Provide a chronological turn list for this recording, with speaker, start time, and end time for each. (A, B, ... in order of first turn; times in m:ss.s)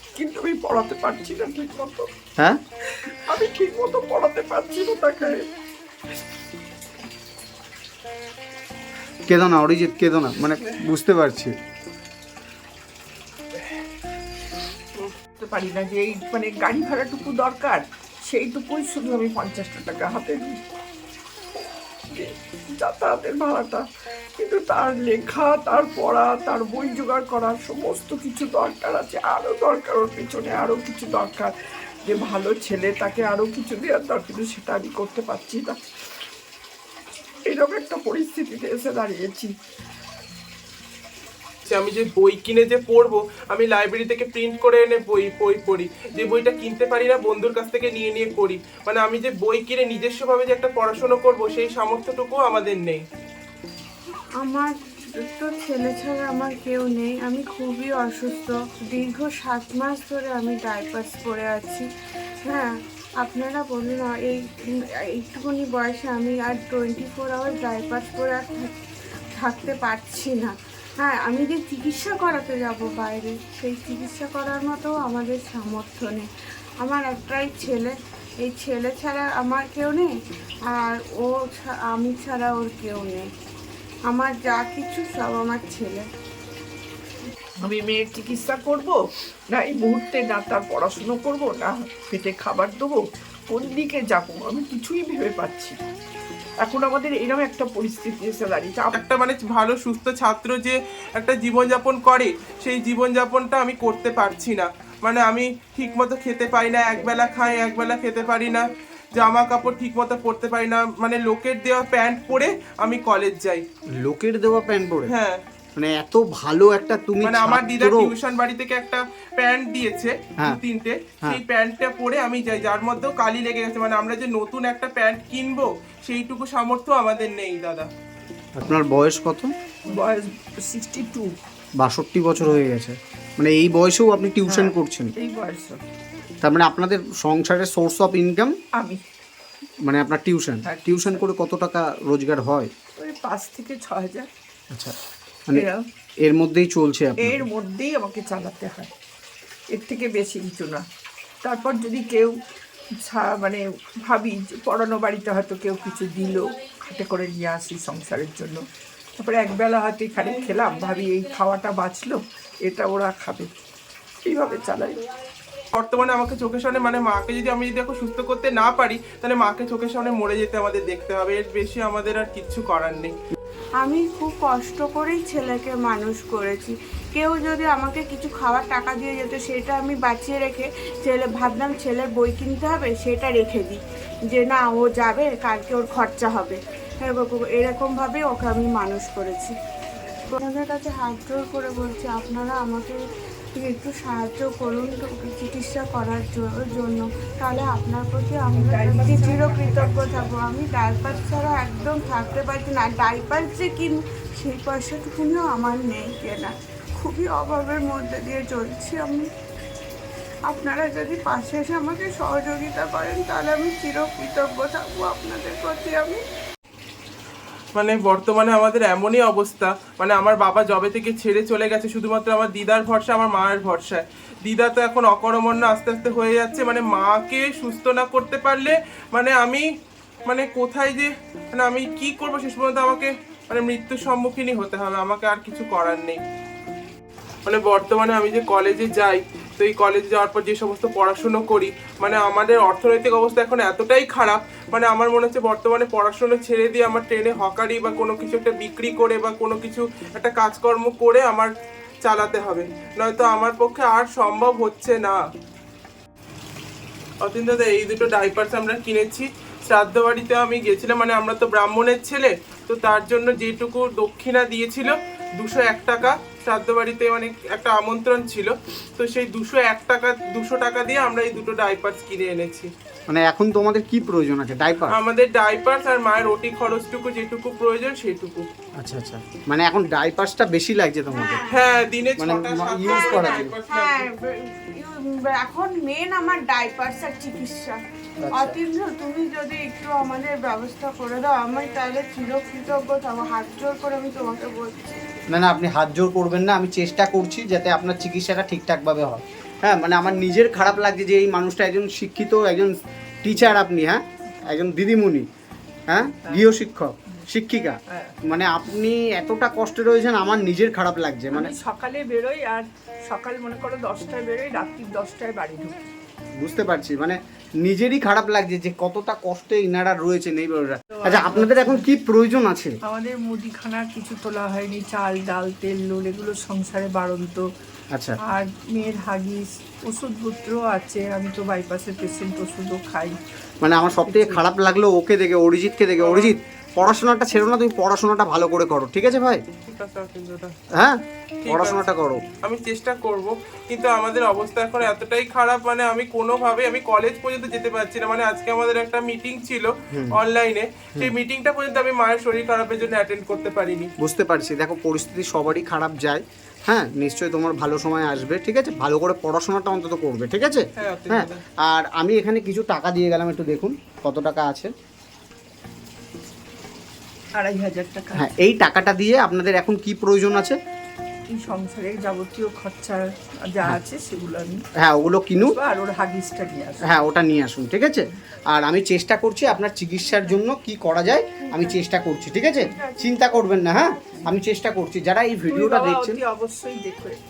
0:00.1-0:02.1 A
0:02.9-0:05.5 A
0:09.3-0:11.5 B
0:15.4-0:20.6 A
0:22.1-0:23.8 A
0:24.4-0:31.5 A
0:32.0-0:35.8 A
0:37.4-0:39.5 A
0:41.7-0:53.0 C
0:54.4-1:01.8 D
1:02.5-1:04.4 D
1:05.1-1:08.7 D
1:09.4-1:16.2 D
1:16.8-1:20.1 D
1:20.7-1:23.2 D
1:24.1-1:26.0 D
1:27.6-1:29.0 A
1:29.5-1:35.8 A
1:36.6-1:38.9 A
1:38.9-1:48.6 C
1:49.2-1:53.6 C
1:54.0-1:55.1 B
1:55.1-1:55.4 C
1:55.8-1:58.1 B
1:57.2-2:07.9 C
2:08.6-2:09.5 B
2:09.9-2:11.3 A
2:11.8-2:15.1 B
2:14.4-2:15.8 A
2:16.4-2:18.5 B
2:19.8-2:22.7 B
2:20.6-2:21.2 A
2:23.0-2:24.3 A
2:25.5-2:25.8 A
2:26.2-2:27.4 B
2:27.2-2:28.9 A
2:29.7-2:30.8 A
2:31.4-2:32.3 A
2:33.0-2:38.6 A
2:39.2-2:43.5 A
2:44.2-2:45.0 A
2:45.7-2:53.2 C
2:53.8-3:09.5 D
3:10.3-3:13.0 D
3:13.5-3:29.3 D
3:18.5-3:20.2 A
3:30.5-3:36.2 D
3:37.7-3:49.6 C
3:50.3-3:56.2 C
3:57.4-4:11.5 C
4:12.0-4:15.2 C
4:17.2-4:32.7 C
4:33.1-4:35.0 B
4:34.9-4:38.5 C
4:38.8-4:41.4 B
4:41.1-4:41.6 D
4:41.5-4:44.1 C
4:42.2-4:43.5 B
4:42.8-4:47.8 D
4:48.2-4:48.6 B
4:48.3-4:55.0 D
4:55.3-5:02.7 B
5:03.2-5:05.2 B
5:05.9-5:11.5 B
5:06.3-5:06.5 A
5:07.9-5:08.1 A
5:11.3-5:15.9 A
5:16.4-5:22.8 B
5:20.9-5:21.8 A
5:22.8-5:27.5 A
5:28.2-5:33.2 A
5:33.6-5:39.4 B
5:33.9-5:34.4 A
5:36.0-5:36.3 C
5:39.7-5:40.5 C
5:40.8-5:42.2 B
5:41.4-5:41.9 C
5:42.4-5:53.9 C
5:54.0-6:04.7 B
6:00.8-6:01.4 C
6:07.3-6:08.3 A
6:08.2-6:10.6 B
6:11.3-6:14.6 A
6:14.8-6:15.6 B
6:15.4-6:16.9 A
6:16.8-6:26.2 B
6:21.5-6:21.8 D
6:22.7-6:24.3 D
6:25.5-6:27.2 A